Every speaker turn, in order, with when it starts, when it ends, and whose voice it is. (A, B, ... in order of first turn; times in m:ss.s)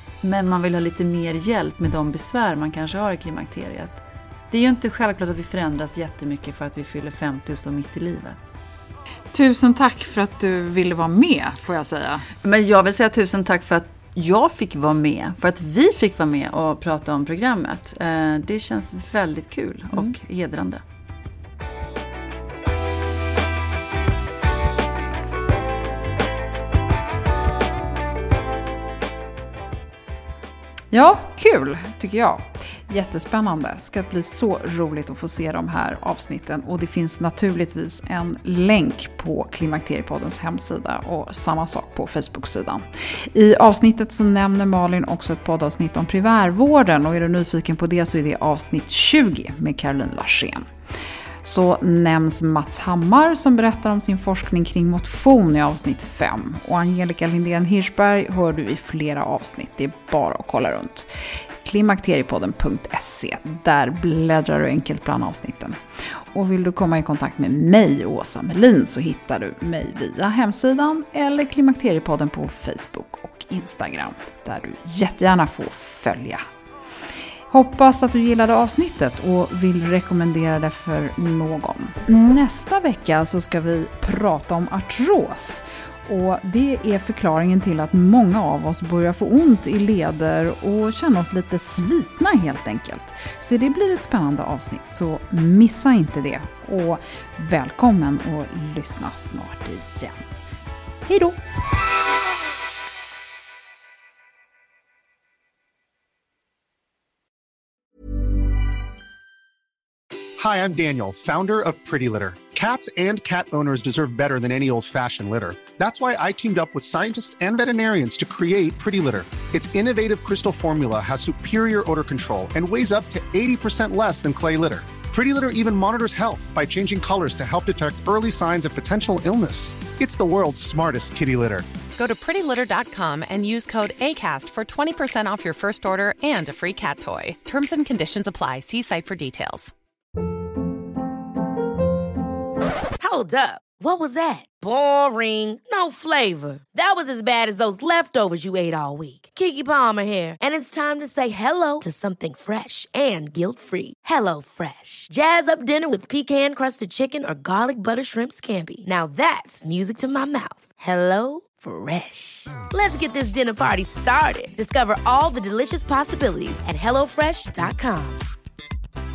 0:00.2-0:04.0 A
0:04.5-0:08.4 A
0:09.3-0:12.2 B
0:12.4-0:20.8 A
0:30.9-0:50.7 B
0:51.4-1:16.5 B
1:17.5-1:40.3 B
1:41.0-1:41.4 B
1:50.4-2:11.7 C
2:11.9-2:19.7 D
2:23.0-2:48.2 E